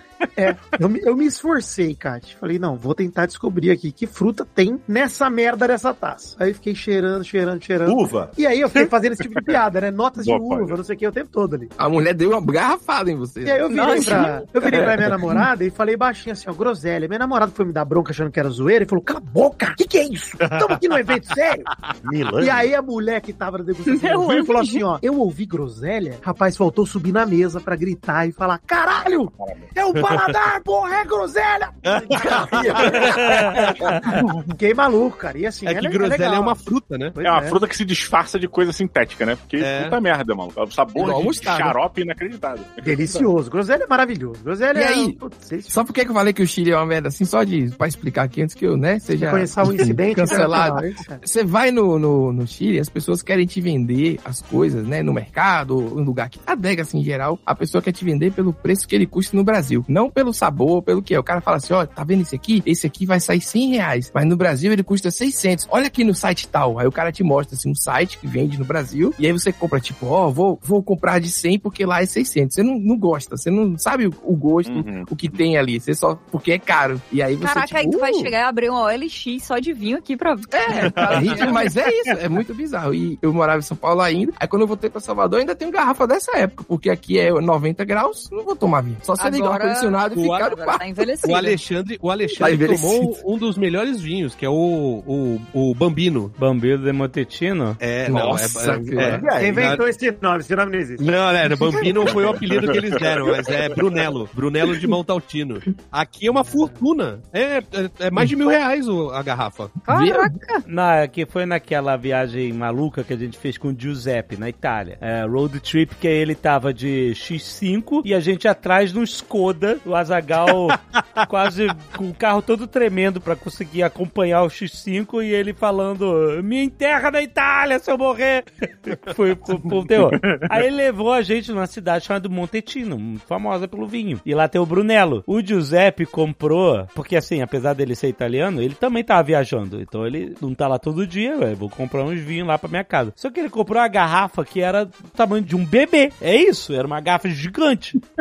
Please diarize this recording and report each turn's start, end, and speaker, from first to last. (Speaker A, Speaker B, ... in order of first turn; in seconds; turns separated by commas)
Speaker A: 0.3-11.7, Speaker B: 7.8-8.4, Speaker C: 10.2-10.8, Speaker D: 11.8-15.5, Speaker A: 13.4-21.7, Speaker E: 13.7-14.5, Speaker B: 22.0-22.7, Speaker A: 22.4-34.0, Speaker E: 23.9-24.8, Speaker C: 29.4-29.7, Speaker B: 31.9-33.4, Speaker A: 34.6-36.6, Speaker F: 35.6-37.2, Speaker A: 37.1-37.6, Speaker C: 37.2-43.3, Speaker F: 39.6-40.0, Speaker D: 41.0-41.8, Speaker A: 42.8-45.8, Speaker D: 44.7-45.2, Speaker D: 45.7-78.3, Speaker A: 49.2-51.2, Speaker C: 74.7-75.3, Speaker E: 77.4-81.6, Speaker D: 80.5-91.0, Speaker E: 89.2-91.6, Speaker F: 90.1-90.5, Speaker F: 91.2-96.3, Speaker D: 92.3-93.2, Speaker G: 96.4-97.8, Speaker F: 97.8-99.8, Speaker D: 98.0-99.2, Speaker A: 99.2-102.2, Speaker B: 99.2-99.8, Speaker F: 101.0-109.8, Speaker A: 106.3-106.8, Speaker E: 109.8-110.6, Speaker D: 109.9-110.3, Speaker G: 110.7-148.0, Speaker C: 130.2-130.5